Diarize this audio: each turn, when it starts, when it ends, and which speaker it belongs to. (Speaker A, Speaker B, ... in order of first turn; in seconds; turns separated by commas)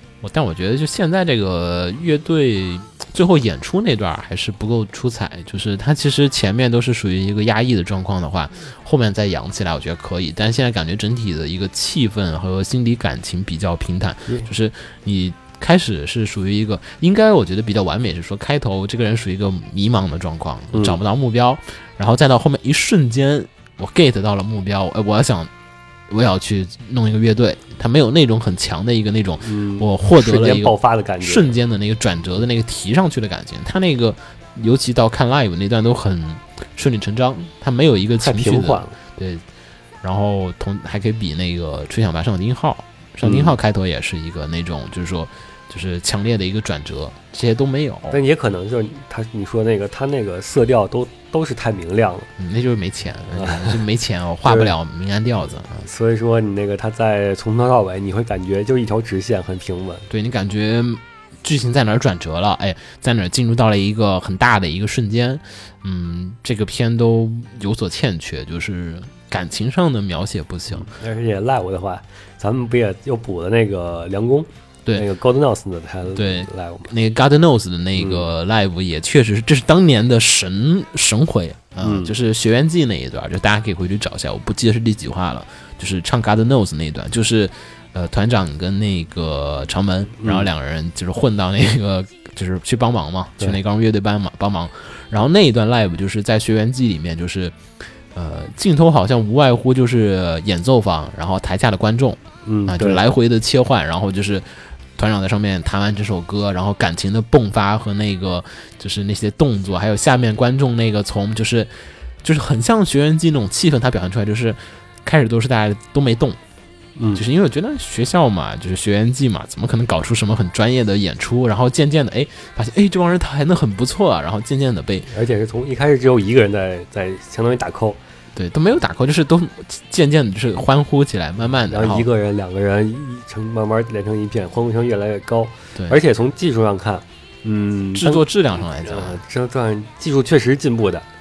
Speaker A: 0.2-25.5, Speaker B: 20.7-21.0, Speaker A: 26.1-39.4, Speaker B: 29.4-31.5, Speaker B: 38.2-39.0, Speaker A: 40.0-48.2, Speaker B: 43.2-43.6, Speaker B: 48.1-52.3, Speaker A: 52.4-55.9, Speaker B: 53.3-53.8, Speaker B: 54.4-54.7, Speaker B: 55.8-60.1, Speaker A: 60.1-70.9, Speaker B: 70.7-76.9, Speaker A: 76.1-97.6, Speaker B: 78.0-78.3, Speaker B: 81.8-82.2, Speaker B: 90.2-90.5, Speaker A: 98.1-116.4, Speaker B: 102.5-103.0, Speaker B: 117.0-117.2, Speaker A: 117.1-125.1, Speaker B: 125.1-128.0, Speaker A: 128.3-132.1, Speaker B: 131.4-141.1, Speaker A: 137.9-139.2